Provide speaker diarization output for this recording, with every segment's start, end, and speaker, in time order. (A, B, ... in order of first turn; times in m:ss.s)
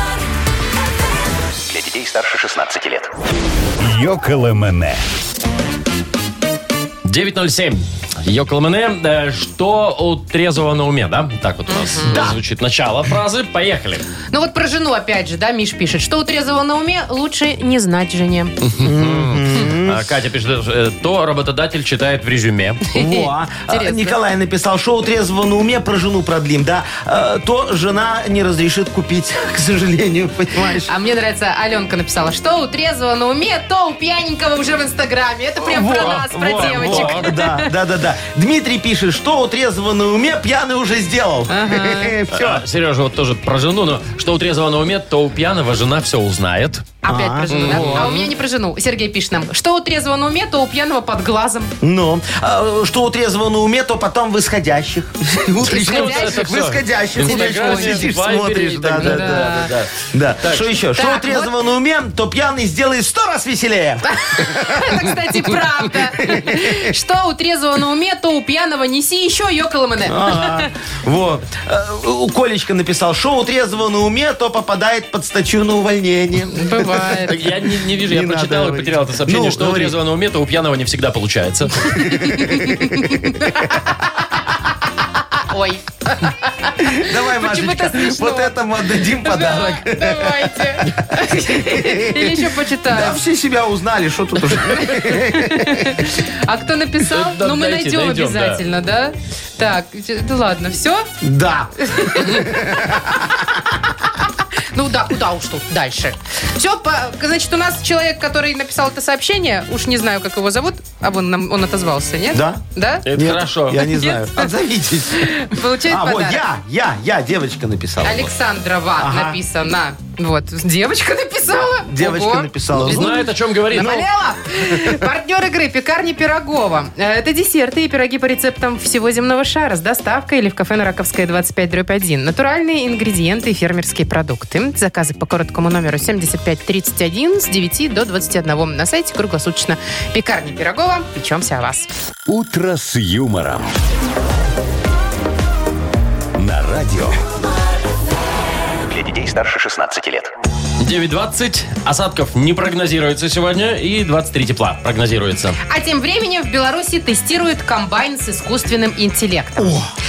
0:01.7-0:03.1 A
0:03.8-0:05.0 B
0:07.0-0:14.0 C
0:11.7-0:12.2 D
0:12.1-0:12.4 E
0:14.3-0:18.6 D
0:18.6-0:22.9 C
0:18.8-0:20.0 E
0:22.9-0:24.2 D
0:22.9-0:30.9 E
0:30.9-0:37.7 D
0:35.6-0:42.6 E
0:36.0-0:37.3 C
0:41.5-0:42.2 D
0:42.3-0:47.0 C
0:47.0-0:51.7 D
0:47.1-0:48.1 E
0:47.5-0:48.3 C
0:51.8-1:05.2 E
0:55.6-0:56.6 D
0:55.6-1:00.8 C
0:57.2-0:58.1 D
0:59.0-0:59.7 D
1:00.9-1:01.5 D
1:04.0-1:10.7 D
1:06.0-1:06.9 E
1:10.1-1:17.1 E
1:16.5-1:17.4 D
1:17.3-1:21.9 C
1:18.0-1:20.0 E
1:21.9-1:23.5 E
1:22.2-1:23.8 D
1:25.4-1:28.6 D
1:26.8-1:36.0 E
1:29.2-1:33.2 D
1:34.6-1:41.1 D
1:37.1-1:38.6 C
1:41.2-1:43.6 E
1:41.8-1:42.5 D
1:44.7-1:53.1 D
1:52.3-1:52.6 E
1:53.1-1:53.9 C
1:53.2-1:58.3 E
1:53.8-1:54.5 D
1:55.1-1:56.4 D
1:58.0-2:21.9 D
1:59.0-1:59.4 E
2:01.8-2:04.0 E
2:02.7-2:04.0 C
2:04.7-2:05.0 E
2:22.3-2:23.7 B
2:26.4-2:27.2 B
2:28.9-2:30.3 A
2:30.8-2:35.6 C
2:35.7-2:39.8 D
2:39.6-2:39.9 E